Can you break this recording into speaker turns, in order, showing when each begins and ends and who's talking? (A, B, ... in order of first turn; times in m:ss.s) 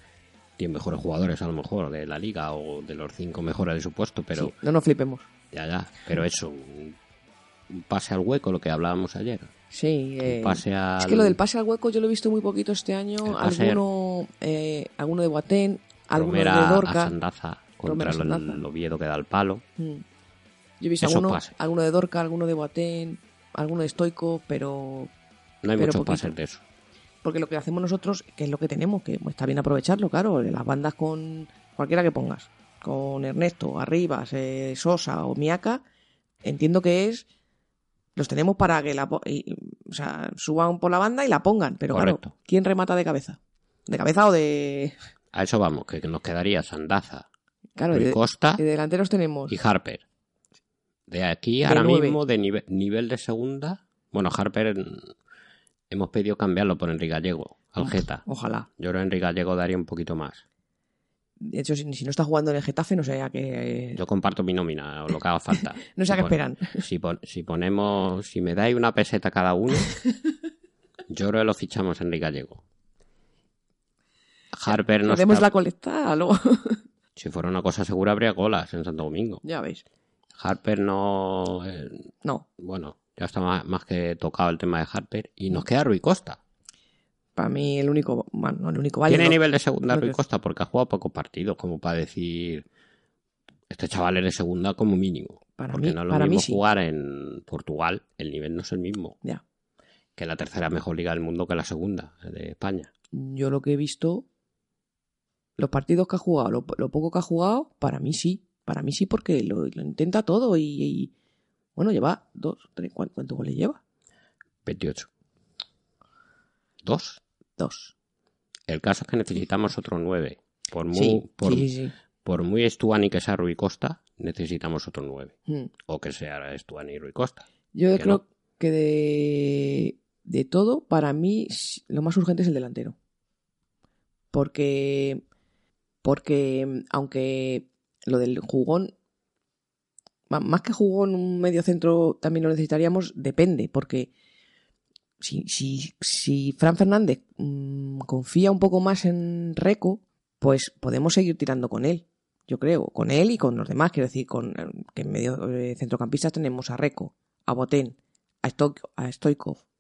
0:00.6-0:04.6 A
0:04.4-0:05.3 B
0:05.5-0:07.0 A
0:07.7-0:09.5 A
0:09.7-0:17.2 B
0:10.2-0:11.4 A
0:13.2-0:13.8 A
0:16.1-0:19.6 A
0:17.8-0:18.7 B
0:19.8-0:20.0 B
0:20.8-0:25.1 B
0:21.0-0:21.5 A
0:25.6-0:26.6 A
0:25.8-0:26.4 B
0:27.2-0:35.8 B
0:36.4-0:37.3 B
0:38.2-0:45.0 B
0:41.9-0:42.3 A
0:45.3-0:47.3 A
0:47.8-0:49.6 B
0:47.9-0:48.6 A
0:49.5-0:50.0 A
0:51.1-0:55.1 A
0:51.6-0:52.2 B
0:55.9-0:58.2 A
0:57.8-0:58.7 B
0:58.8-1:00.4 A
1:01.4-1:04.0 B
1:04.0-1:10.0 A
1:05.9-1:06.8 B
1:11.1-1:12.6 A
1:14.5-1:15.5 A
1:14.7-1:16.8 B
1:17.2-1:19.4 A
1:19.4-1:19.8 B
1:20.4-1:22.1 A
1:22.6-1:26.4 A
1:27.4-1:30.2 B
1:29.1-1:32.7 A
1:33.7-1:39.2 A
1:35.6-1:36.6 B
1:40.2-1:42.9 A
1:43.1-1:44.2 B
1:45.6-1:51.1 B
1:51.8-1:53.8 B
1:54.6-1:55.1 A
1:56.8-1:57.2 A
1:57.6-1:57.9 B
1:58.7-2:01.7 A
2:00.9-2:01.9 B
2:02.2-2:05.3 A
2:05.8-2:08.2 A
2:07.7-2:13.0 B
2:14.3-2:15.2 B
2:16.0-2:18.9 B
2:20.3-2:24.1 B
2:25.2-2:39.6 B